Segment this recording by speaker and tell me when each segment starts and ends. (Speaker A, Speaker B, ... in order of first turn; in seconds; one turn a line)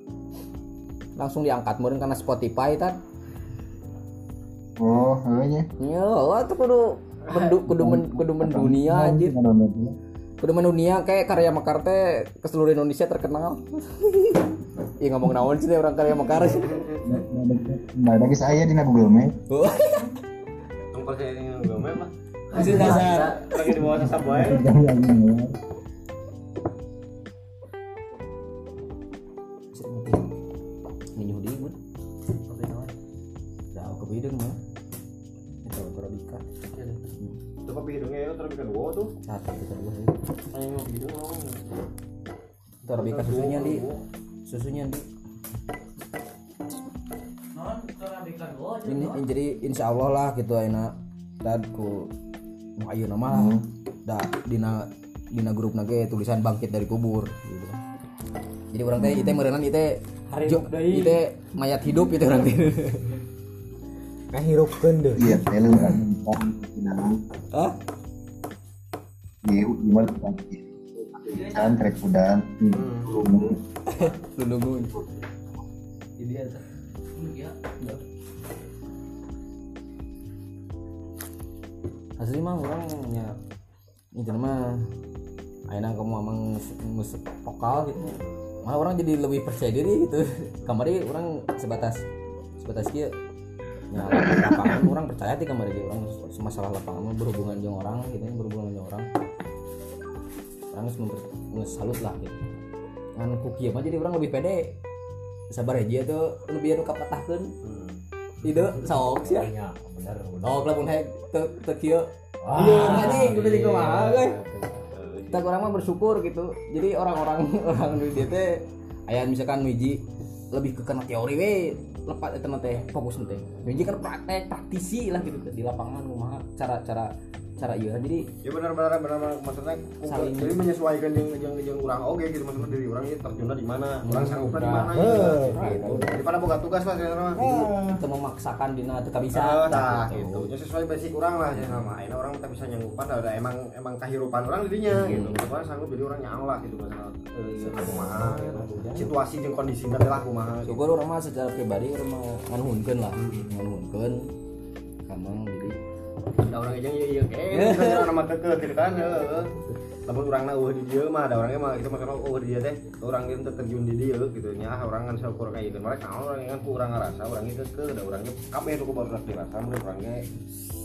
Speaker A: 1.2-3.0
Speaker B: 4.8-5.7
Speaker A: 5.8-9.3
Speaker B: 7.6-9.9
Speaker A: 10.4-16.8
Speaker C: 16.4-17.0
Speaker B: 17.0-19.3
Speaker A: 19.5-20.2
Speaker C: 20.9-24.6
Speaker A: 22.5-23.6
Speaker D: 22.5-23.9
Speaker B: 23.8-25.5
Speaker A: 29.7-30.3
Speaker A: 31.2-31.8
Speaker D: 32.5-32.9
Speaker A: 33.7-34.6
Speaker A: 35.6-36.4
Speaker D: 36.7-37.0
Speaker C: 37.6-39.1
Speaker A: 39.3-40.2
Speaker C: 40.5-41.7
Speaker A: 42.8-43.8
Speaker C: 43.0-44.0
Speaker A: 44.5-45.0
Speaker D: 47.5-49.2
Speaker A: 48.8-52.1
Speaker A: 52.8-57.8
Speaker B: 53.3-53.6
Speaker A: 58.7-63.2
Speaker B: 59.0-59.4
Speaker D: 60.3-61.2
Speaker E: 64.3-65.8
Speaker B: 65.2-67.2
Speaker B: 69.4-73.6
Speaker D: 71.3-71.7
Speaker C: 72.7-74.1
Speaker A: 73.9-75.0
Speaker A: 76.2-76.6
Speaker D: 77.2-77.6
Speaker A: 77.8-78.0
Speaker A: 82.2-83.3
Speaker A: 84.1-84.8
Speaker A: 85.7-92.0
Speaker A: 92.6-93.1
Speaker A: 93.9-99.1
Speaker A: 100.7-102.4
Speaker A: 103.2-104.7
Speaker A: 105.5-107.5
Speaker C: 107.6-108.0
Speaker A: 108.4-109.5
Speaker E: 108.4-110.7
Speaker A: 110.4-114.4
Speaker E: 112.4-114.9
Speaker C: 114.9-115.4
Speaker A: 115.3-120.0
Speaker A: 120.5-128.3
Speaker C: 128.4-137.4
Speaker A: 130.0-130.6
Speaker A: 134.0-136.2
Speaker E: 134.6-135.9
Speaker E: 137.3-138.0
Speaker A: 137.4-140.4
Speaker C: 139.3-150.8
Speaker A: 141.5-141.9
Speaker A: 144.9-145.5
Speaker E: 147.6-149.1
Speaker A: 150.7-154.3
Speaker C: 153.2-153.5
Speaker A: 155.1-155.8
Speaker C: 156.4-159.5
Speaker A: 157.5-158.1
Speaker C: 160.1-170.2